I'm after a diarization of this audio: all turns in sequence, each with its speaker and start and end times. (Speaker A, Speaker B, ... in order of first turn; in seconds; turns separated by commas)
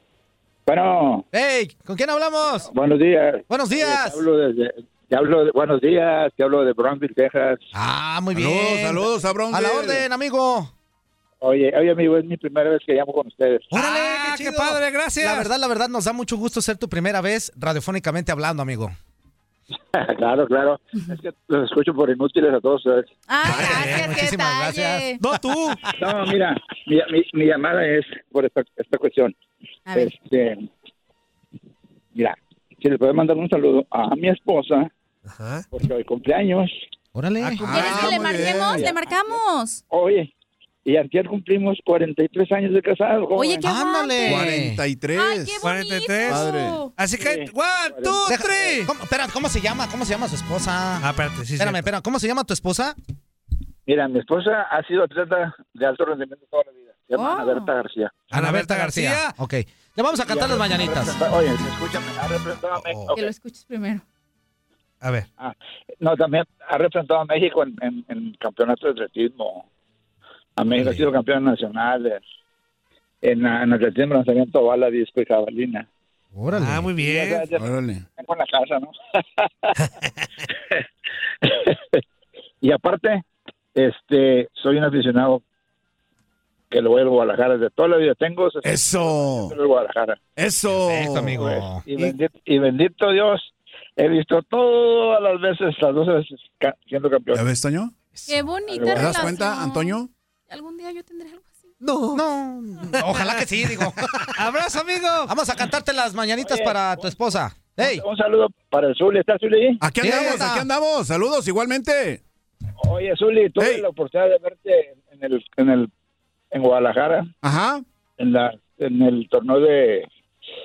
Speaker A: 0.7-1.2, Speaker B: 1.3-2.7, Speaker A: 2.7-7.6, Speaker B: 3.5-4.2, Speaker B: 7.7-10.7, Speaker C: 8.3-10.0, Speaker A: 11.4-13.7, Speaker B: 13.7-18.9, Speaker D: 13.7-15.5, Speaker A: 19.9-23.1, Speaker E: 23.3-25.2, Speaker B: 23.4-25.1, Speaker D: 23.5-24.1, Speaker D: 25.2-25.8, Speaker A: 26.0-29.4, Speaker A: 29.9-30.7, Speaker A: 32.1-34.9, Speaker D: 35.3-35.6, Speaker A: 35.7-36.7, Speaker B: 37.1-37.9, Speaker D: 37.4-38.1, Speaker E: 37.6-39.8, Speaker C: 37.7-38.9, Speaker A: 38.6-39.4, Speaker A: 39.9-40.3, Speaker A: 40.8-43.6, Speaker E: 43.3-44.5, Speaker B: 43.6-44.8, Speaker C: 44.2-45.7, Speaker E: 45.1-46.9, Speaker D: 45.6-48.9, Speaker C: 46.2-46.9, Speaker A: 47.2-48.2, Speaker B: 48.2-53.0, Speaker D: 51.0-51.9, Speaker A: 53.9-58.2, Speaker E: 57.1-57.7, Speaker B: 58.3-61.1, Speaker D: 58.3-59.3, Speaker A: 60.2-63.2, Speaker E: 63.1-64.0, Speaker D: 65.0-65.3, Speaker A: 65.4-69.7, Speaker A: 70.6-72.2, Speaker A: 73.2-75.9, Speaker B: 76.3-76.9, Speaker D: 76.5-77.5, Speaker A: 77.0-79.7, Speaker C: 77.5-78.0, Speaker A: 81.4-82.0, Speaker A: 82.6-85.4, Speaker A: 86.7-90.2, Speaker C: 88.6-89.5, Speaker C: 90.4-91.4, Speaker B: 90.7-91.8, Speaker A: 91.3-97.4, Speaker C: 97.3-97.9, Speaker E: 98.3-101.7, Speaker A: 98.7-99.1, Speaker C: 98.9-100.1, Speaker D: 101.8-102.2, Speaker B: 102.1-104.5, Speaker D: 102.9-105.3, Speaker B: 105.3-108.0, Speaker A: 106.4-106.8, Speaker A: 107.8-109.8, Speaker C: 109.8-112.2, Speaker B: 110.0-110.7, Speaker A: 112.8-115.9, Speaker C: 113.6-113.8, Speaker A: 116.5-117.3, Speaker C: 117.4-117.8, Speaker A: 118.2-120.1